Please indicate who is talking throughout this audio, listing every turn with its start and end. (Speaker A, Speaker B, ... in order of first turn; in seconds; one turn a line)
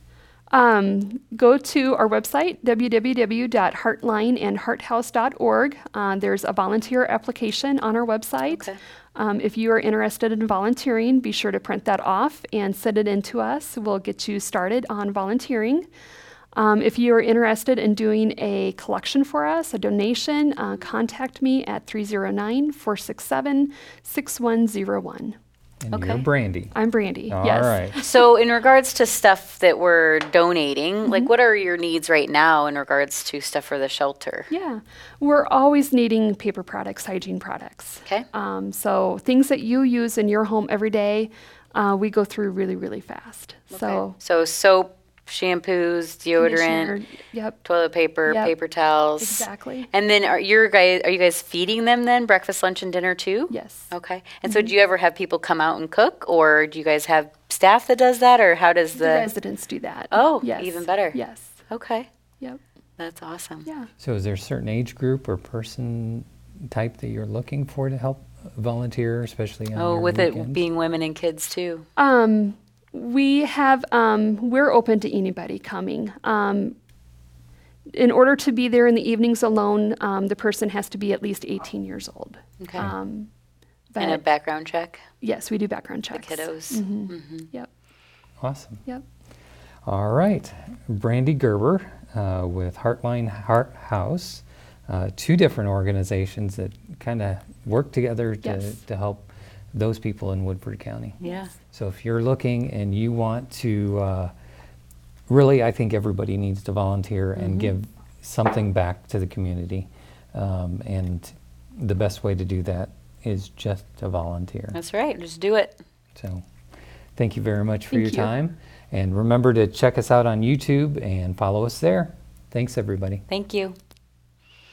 Speaker A: 0.5-15.9
Speaker B: 8.5-8.8
Speaker A: 16.5-25.4
Speaker C: 25.8-26.7
Speaker B: 25.9-26.2
Speaker A: 26.7-28.2
Speaker C: 27.3-28.0
Speaker B: 28.0-34.5
Speaker A: 34.5-44.2
Speaker B: 43.7-47.0
Speaker A: 46.4-47.6
Speaker B: 47.6-59.3
Speaker A: 48.2-48.5
Speaker A: 49.2-49.9
Speaker A: 53.5-53.9
Speaker A: 54.5-54.7
Speaker A: 59.0-61.6
Speaker B: 60.1-62.1
Speaker B: 63.0-63.7
Speaker C: 64.0-70.6
Speaker B: 69.8-71.9
Speaker A: 72.0-76.8
Speaker A: 77.9-83.3
Speaker B: 82.6-82.9
Speaker A: 83.9-84.2
Speaker B: 84.0-85.0
Speaker A: 85.2-87.7
Speaker B: 86.1-87.5
Speaker C: 88.4-88.8
Speaker C: 89.9-101.2
Speaker A: 98.4-98.8
Speaker B: 101.2-101.5
Speaker A: 101.2-101.5
Speaker C: 101.7-104.3
Speaker C: 105.3-114.8
Speaker B: 107.4-107.7
Speaker B: 114.7-115.8
Speaker C: 116.2-116.4
Speaker C: 117.2-123.2
Speaker A: 117.9-118.3
Speaker B: 123.3-123.8